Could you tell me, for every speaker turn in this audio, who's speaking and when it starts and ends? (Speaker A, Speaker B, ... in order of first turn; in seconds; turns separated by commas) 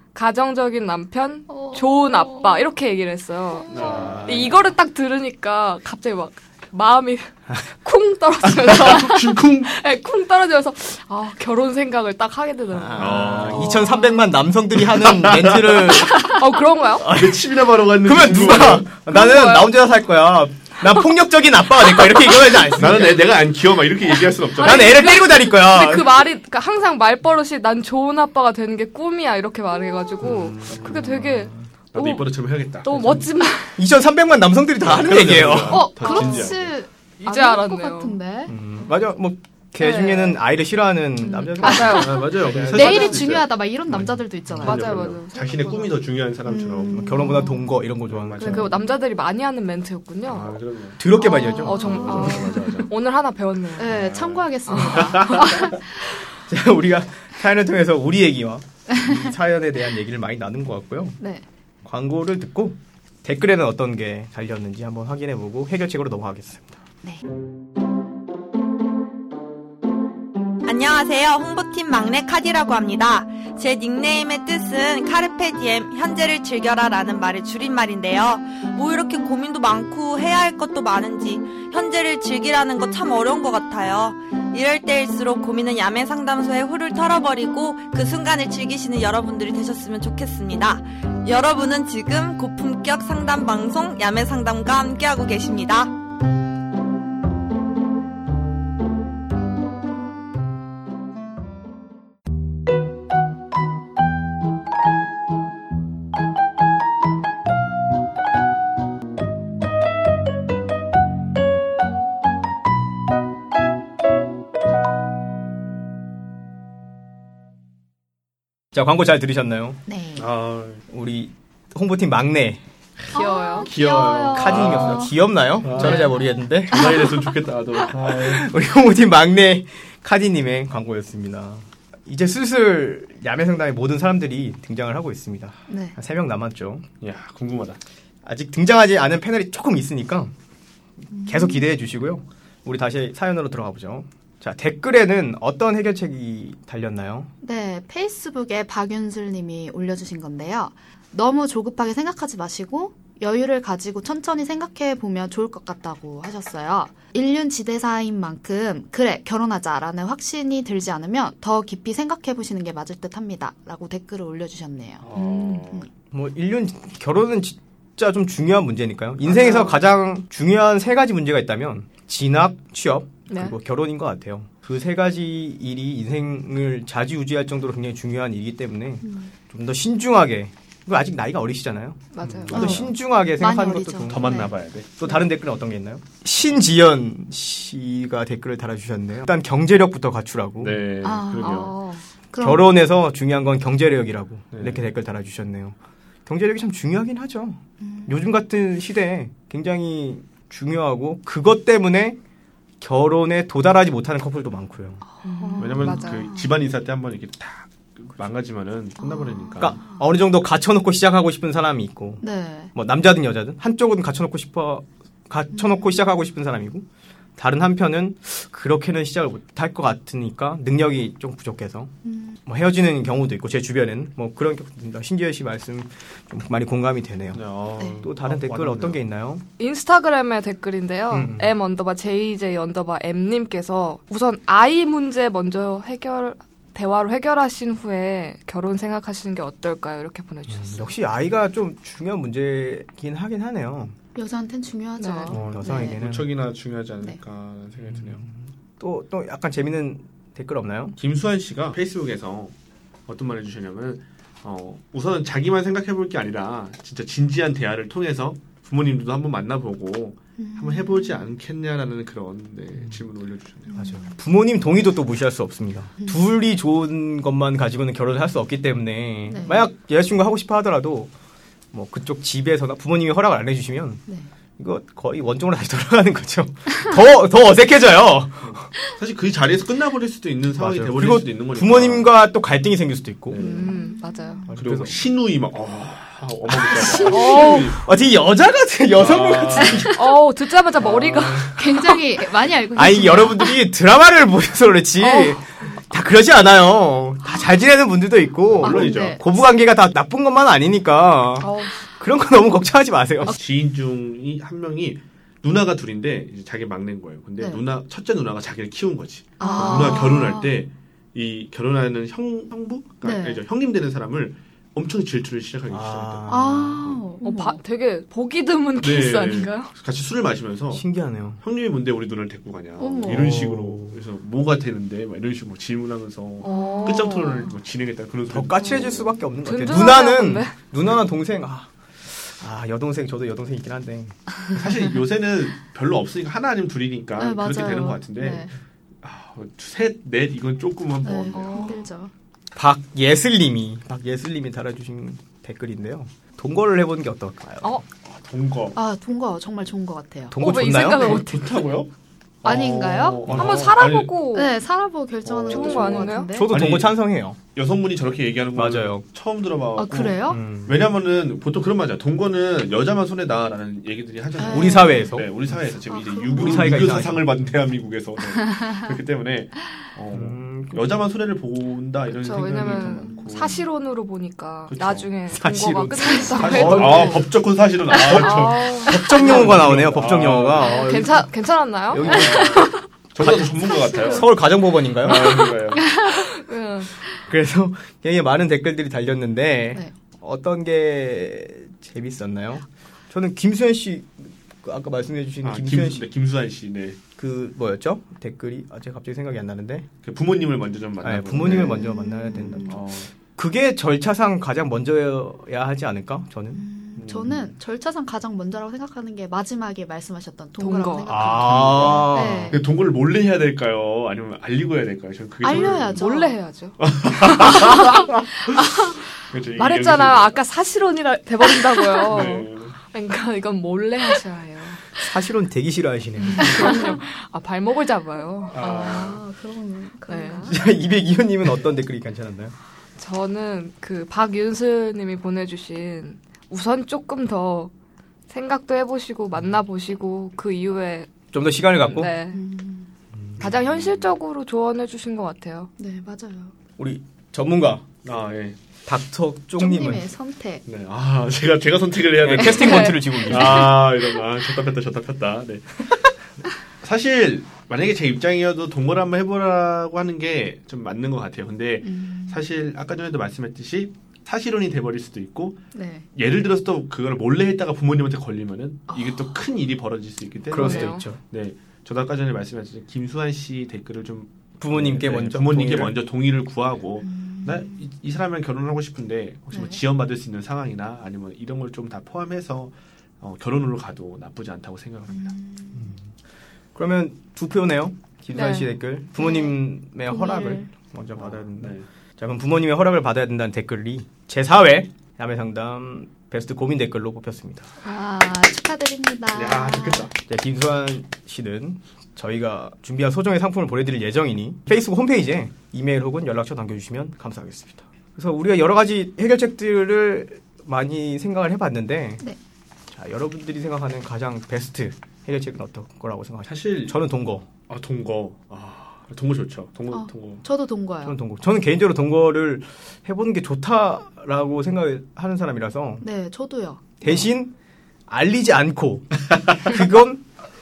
Speaker A: 0.1-14.2, Speaker B: 1.5-2.6, Speaker C: 3.7-4.5, Speaker D: 3.8-4.4, Speaker C: 8.5-9.7, Speaker D: 12.7-16.4, Speaker C: 12.9-13.8, Speaker C: 14.9-16.0, Speaker A: 16.0-17.1, Speaker D: 17.0-23.4, Speaker C: 17.0-18.9, Speaker A: 19.1-19.7, Speaker C: 22.8-25.0, Speaker D: 24.6-26.2, Speaker A: 24.6-32.3, Speaker C: 30.2-31.2, Speaker D: 30.9-31.5, Speaker C: 31.9-33.3, Speaker A: 32.8-33.8, Speaker D: 33.8-35.9, Speaker C: 34.8-36.7, Speaker B: 35.7-38.5, Speaker A: 36.0-36.5, Speaker A: 37.2-38.2, Speaker D: 38.5-42.9, Speaker A: 39.8-40.4, Speaker A: 41.2-43.2, Speaker B: 41.6-45.0, Speaker C: 41.8-47.2, Speaker D: 44.0-44.6, Speaker A: 44.6-46.0, Speaker B: 46.5-47.7, Speaker D: 46.9-48.7, Speaker C: 48.1-48.9, Speaker A: 48.4-50.6, Speaker C: 50.3-51.0, Speaker D: 51.0-52.3, Speaker B: 51.2-52.3, Speaker A: 51.3-54.0, Speaker C: 51.7-52.9, Speaker B: 53.8-55.8, Speaker C: 53.9-55.7, Speaker A: 54.7-55.7, Speaker D: 56.5-61.2, Speaker D: 61.8-66.8, Speaker E: 70.7-95.9, Speaker D: 118.7-119.8, Speaker B: 119.9-120.3, Speaker C: 120.2-120.8, Speaker D: 120.9-122.6, Speaker A: 123.1-123.7, Speaker B: 123.1-125.2, Speaker C: 123.6-126.1, Speaker D: 124.3-127.1, Speaker A: 125.7-126.1, Speaker B: 125.8-126.1, Speaker C: 126.7-128.5, Speaker D: 127.9-136.8, Speaker B: 135.7-135.9, Speaker C: 137.0-137.8, Speaker D: 138.2-140.3, Speaker B: 141.1-141.7, Speaker D: 141.2-147.3, Speaker B: 147.4-165.9, Speaker C: 165.0-165.8, Speaker A: 165.1-165.6, Speaker D: 166.1-190.8, Speaker C: 169.2-169.8, Speaker A: 173.3-173.5, Speaker B: 179.0-179.3, Speaker A: 182.1-182.8, Speaker C: 182.2-182.8, Speaker B: 182.5-184.5, Speaker C: 184.1-184.9, Speaker C: 190.6-191.7, Speaker B: 191.0-191.7, Speaker A: 191.4-192.0, Speaker B: 192.3-192.7, Speaker D: 192.4-195.7, Speaker C: 194.5-194.8, Speaker D: 196.2-202.2, Speaker B: 197.8-198.1, Speaker D: 202.8-205.0, Speaker B: 205.1-206.5, Speaker A: 205.2-206.3, Speaker C: 205.6-209.8, Speaker B: 209.0-210.0, Speaker D: 209.6-212.2, Speaker B: 212.2-212.7, Speaker D: 212.7-216.8, Speaker B: 215.5-215.9, Speaker D: 217.4-221.9, Speaker B: 222.0-222.4, Speaker D: 222.4-227.4, Speaker C: 227.3-229.0, Speaker D: 228.0-229.4, Speaker A: 229.6-240.9, Speaker D: 231.1-231.5, Speaker D: 240.5-243.9, Speaker B: 244.1-246.0, Speaker A: 245.0-245.3, Speaker D: 245.3-246.3, Speaker C: 245.3-248.2, Speaker D: 247.8-251.0, Speaker C: 251.0-252.5, Speaker C: 253.1-263.8, Speaker B: 260.4-261.3, Speaker B: 263.7-264.1, Speaker D: 263.7-271.1, Speaker B: 269.3-269.7, Speaker D: 271.7-274.0, Speaker D: 274.6-278.6, Speaker C: 278.4-282.1, Speaker D: 280.6-283.4, Speaker C: 283.3-283.7, Speaker A: 283.4-284.4, Speaker B: 283.4-284.5, Speaker D: 284.5-285.0, Speaker C: 284.5-287.9, Speaker B: 286.8-287.6, Speaker A: 287.0-287.7, Speaker D: 287.3-290.0, Speaker C: 288.9-289.9, Speaker A: 289.9-291.7, Speaker C: 290.8-291.5, Speaker B: 291.6-293.6, Speaker D: 292.7-303.4, Speaker A: 295.0-295.4, Speaker C: 298.5-299.2, Speaker B: 298.6-299.2, Speaker A: 301.4-301.8, Speaker C: 303.3-316.4, Speaker B: 309.4-310.6, Speaker A: 309.4-310.2, Speaker B: 313.0-313.4, Speaker D: 315.7-317.0, Speaker B: 316.3-317.6, Speaker A: 317.2-319.7, Speaker C: 318.8-320.8, Speaker D: 320.7-321.4, Speaker C: 321.4-329.1, Speaker B: 322.8-323.4, Speaker D: 323.1-324.0, Speaker A: 326.4-327.5, Speaker B: 326.4-327.4, Speaker D: 328.3-334.1, Speaker A: 329.4-330.5, Speaker C: 334.5-338.5, Speaker B: 337.2-338.5, Speaker C: 339.0-341.8, Speaker B: 341.0-342.1, Speaker A: 341.3-341.8, Speaker D: 342.5-347.8, Speaker C: 348.0-348.8, Speaker B: 348.7-350.4, Speaker D: 350.3-351.2, Speaker A: 350.4-351.7, Speaker C: 350.8-351.9, Speaker C: 352.4-354.1, Speaker B: 352.4-353.2, Speaker D: 353.2-353.7, Speaker A: 353.3-354.5, Speaker B: 354.3-356.5, Speaker C: 355.2-357.0, Speaker A: 355.5-356.3, Speaker D: 356.3-357.4, Speaker C: 357.5-373.6, Speaker D: 358.5-359.0, Speaker B: 359.8-360.4, Speaker D: 360.3-360.9, Speaker B: 364.4-365.1, Speaker D: 364.4-365.7, Speaker B: 365.9-367.0, Speaker D: 366.3-367.5, Speaker D: 370.1-371.0, Speaker A: 372.1-377.3, Speaker B: 372.8-373.3, Speaker C: 374.7-375.1, Speaker D: 375.3-377.3, Speaker C: 376.0-380.8, Speaker A: 377.9-379.4, Speaker D: 377.9-381.3, Speaker A: 380.6-382.8, Speaker D: 381.9-382.7, Speaker C: 381.9-384.3, Speaker D: 383.2-385.5, Speaker C: 385.0-385.9, Speaker A: 385.1-386.9, Speaker D: 387.2-396.1, Speaker C: 395.4-397.0, Speaker D: 397.1-399.9, Speaker C: 400.0-403.1, Speaker D: 401.0-406.6, Speaker B: 401.4-402.8, Speaker B: 406.5-412.6, Speaker C: 407.0-407.5, Speaker A: 410.6-411.1, Speaker D: 411.1-412.6, Speaker C: 411.1-416.0, Speaker B: 415.4-416.3, Speaker A: 415.9-419.0, Speaker C: 416.8-420.3, Speaker A: 419.5-424.9, Speaker C: 422.0-422.7, Speaker D: 425.0-426.8, Speaker A: 426.2-428.9, Speaker B: 426.4-426.9, Speaker C: 428.5-429.2, Speaker B: 428.5-430.6, Speaker A: 430.1-430.5, Speaker D: 430.5-432.5, Speaker A: 433.0-437.7, Speaker A: 438.3-441.2, Speaker D: 441.3-442.1, Speaker A: 441.7-442.4, Speaker B: 442.3-442.9, Speaker C: 443.4-444.1, Speaker A: 443.4-445.7, Speaker B: 445.8-446.5, Speaker D: 446.8-447.8, Speaker C: 448.0-448.6, Speaker D: 448.9-450.1, Speaker B: 449.6-450.6, Speaker C: 450.6-455.9, Speaker D: 452.2-453.9, Speaker A: 452.5-453.5, Speaker C: 456.8-465.6, Speaker B: 461.8-462.4, Speaker B: 465.7-466.1, Speaker C: 466.1-485.3, Speaker B: 468.9-469.4, Speaker D: 470.5-471.2, Speaker A: 470.5-471.1, Speaker D: 474.6-476.0, Speaker B: 477.0-477.8, Speaker B: 479.5-479.8, Speaker B: 485.1-485.9, Speaker D: 486.7-497.7, Speaker A: 488.3-488.7, Speaker B: 489.2-490.7, Speaker C: 491.2-491.9, Speaker B: 497.8-500.1, Speaker C: 499.3-500.1, Speaker D: 500.2-512.2, Speaker D: 512.9-517.5, Speaker C: 516.5-517.0, Speaker C: 517.7-520.4, Speaker B: 519.9-521.2, Speaker D: 521.0-526.0, Speaker B: 526.0-526.8, Speaker D: 527.0-527.5, Speaker D: 528.1-530.2